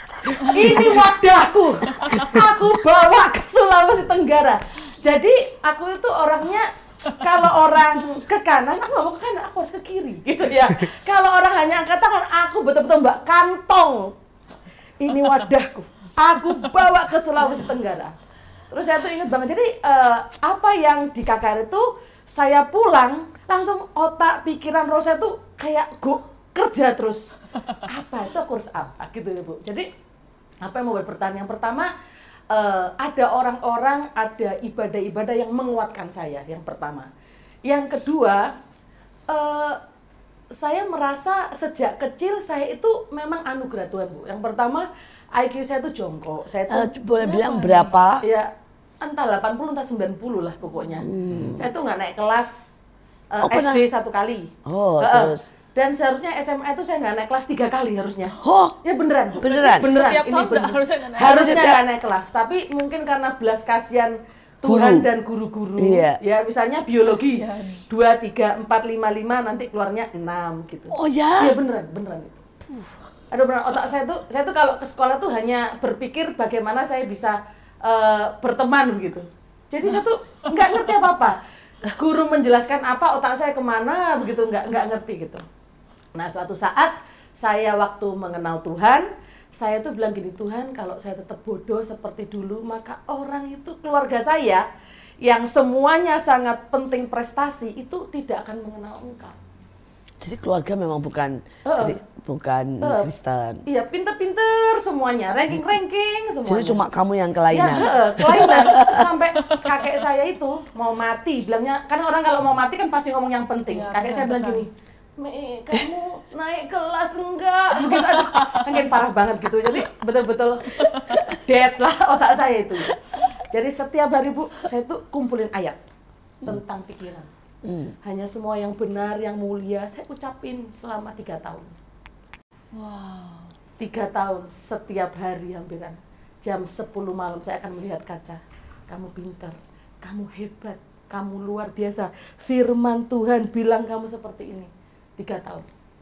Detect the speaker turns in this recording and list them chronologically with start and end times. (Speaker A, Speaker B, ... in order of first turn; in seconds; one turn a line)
Speaker A: 0.3-14.1
Speaker A: 15.0-18.1
Speaker A: 18.7-29.9
Speaker A: 30.6-31.9
Speaker A: 32.5-37.1
Speaker A: 37.6-38.5
Speaker A: 39.3-39.8
Speaker A: 40.5-46.9
Speaker B: 46.7-48.2
Speaker C: 47.2-47.9
Speaker A: 48.2-48.5
Speaker A: 49.0-52.7
Speaker B: 51.0-51.7
Speaker A: 53.3-72.4
Speaker B: 53.4-53.8
Speaker B: 54.6-55.5
Speaker B: 58.4-58.8
Speaker B: 59.4-59.9
Speaker C: 59.7-61.5
Speaker B: 61.1-61.8
Speaker B: 64.6-65.0
Speaker B: 65.8-66.2
Speaker C: 67.0-67.8
Speaker B: 70.9-71.6
Speaker A: 73.3-85.4
Speaker A: 86.1-94.6
Speaker A: 95.2-99.3
Speaker B: 100.2-103.6
Speaker A: 101.7-102.0
Speaker A: 102.8-103.1
Speaker A: 103.7-106.8
Speaker B: 106.5-109.0
Speaker A: 107.5-125.8
Speaker C: 113.7-114.7
Speaker A: 126.4-127.3
Speaker B: 127.6-127.9
Speaker A: 128.0-131.7
Speaker C: 132.7-133.5
Speaker A: 133.8-145.7